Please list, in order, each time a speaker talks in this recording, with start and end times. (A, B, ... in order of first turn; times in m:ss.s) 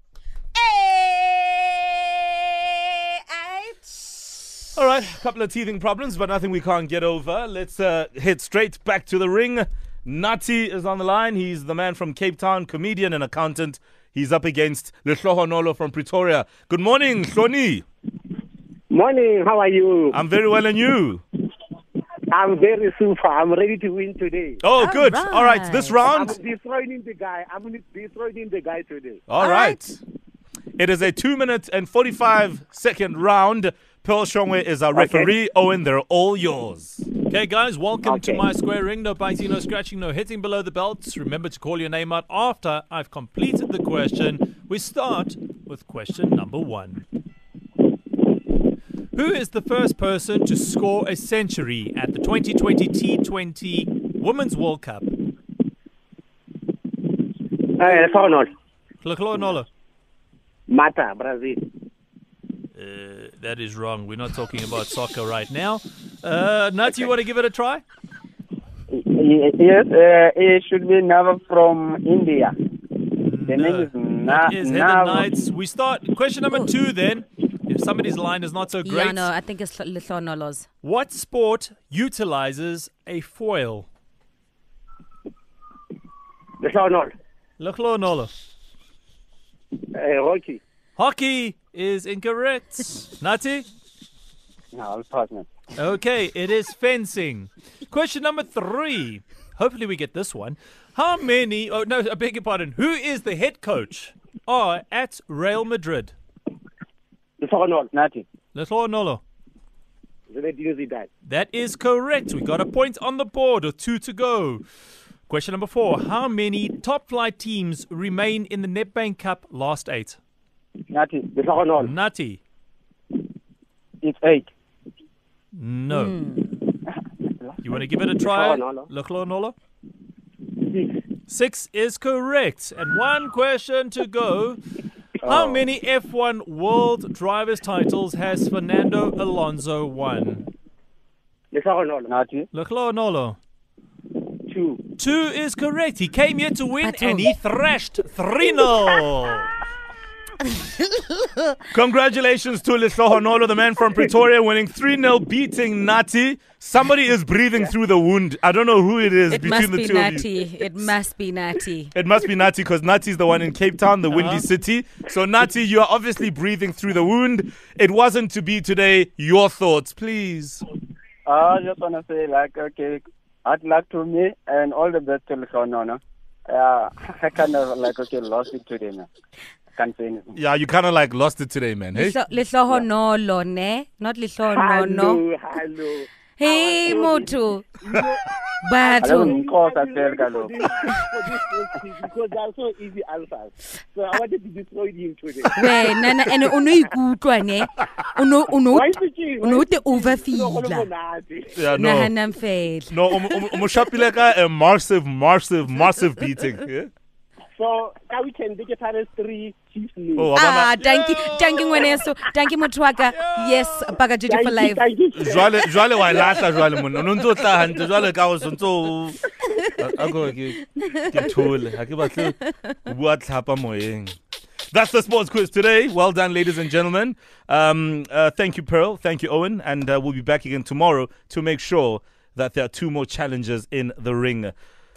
0:00.5-0:04.4 A
0:04.8-0:17.8 B
0:18.9-0:20.2 C
0:20.1-0:21.2 B
0:22.3-0:24.6 C
0:24.6-0:26.4 B
0:24.7-0:26.0 A
0:26.0-0:29.3 C
0:29.3-0:30.0 B
0:29.4-0:29.8 A
0:30.8-0:37.1 B
0:34.9-0:35.3 C
0:37.3-0:47.0 D
0:38.0-0:38.4 C
0:49.1-0:55.1 D
0:57.7-0:58.5 C
0:59.0-0:59.7 D
1:00.7-1:01.6 C
1:02.7-1:07.8 D
1:08.9-1:12.5 E
1:13.2-1:19.3 D
1:13.4-1:15.5 E
1:18.8-1:20.6 A
1:20.8-1:23.9 D
1:26.6-1:27.1 C
1:27.6-1:28.3 D
1:29.9-1:30.6 C
1:31.0-1:33.7 D
1:34.7-1:35.5 E
1:35.8-1:46.1 D
1:47.4-1:47.9 C
1:47.9-1:48.2 E
1:48.5-1:49.2 D
1:50.3-1:51.1 C
1:51.2-1:54.6 D
1:55.3-2:00.2 D
2:00.9-2:01.3 E
2:01.3-2:01.9 C
2:01.8-2:02.4 D
2:04.0-2:04.5 E
2:05.5-2:06.1 D
2:05.9-2:06.5 A
2:07.4-2:07.8 E
2:07.6-2:09.5 D
2:08.2-2:08.9 C
2:10.6-2:10.9 C
2:11.3-2:14.6 D
2:15.2-2:15.7 E
2:15.2-2:20.4 D
2:21.5-2:22.1 C
2:22.1-2:22.5 E
2:22.5-2:23.4 D
2:24.5-2:24.8 C
2:25.0-2:29.5 D
2:26.8-2:27.3 A
2:30.5-2:31.4 A
2:31.7-2:40.3 B
2:39.3-2:41.9 A
2:41.9-2:50.6 B
2:44.1-2:44.4 D
2:51.3-2:59.1 E
2:59.8-3:00.4 E
3:00.4-3:02.2 B
3:01.9-3:05.2 A
3:04.5-3:08.2 C
3:06.4-3:07.7 A
3:08.6-3:09.3 A
3:08.8-3:16.0 C
3:09.0-3:10.5 E
3:15.5-3:20.9 A
3:18.7-3:21.7 C
3:21.5-3:22.1 B
3:21.7-3:23.5 A
3:22.9-3:26.9 B
3:27.6-3:30.3 C
3:30.2-3:30.8 B
3:30.3-3:34.8 A
3:30.8-3:32.0 C
3:34.3-3:36.5 C
3:35.1-3:39.2 B
3:39.5-3:40.0 A
3:39.8-3:44.2 B
3:40.7-3:41.4 A
3:44.7-3:54.5 B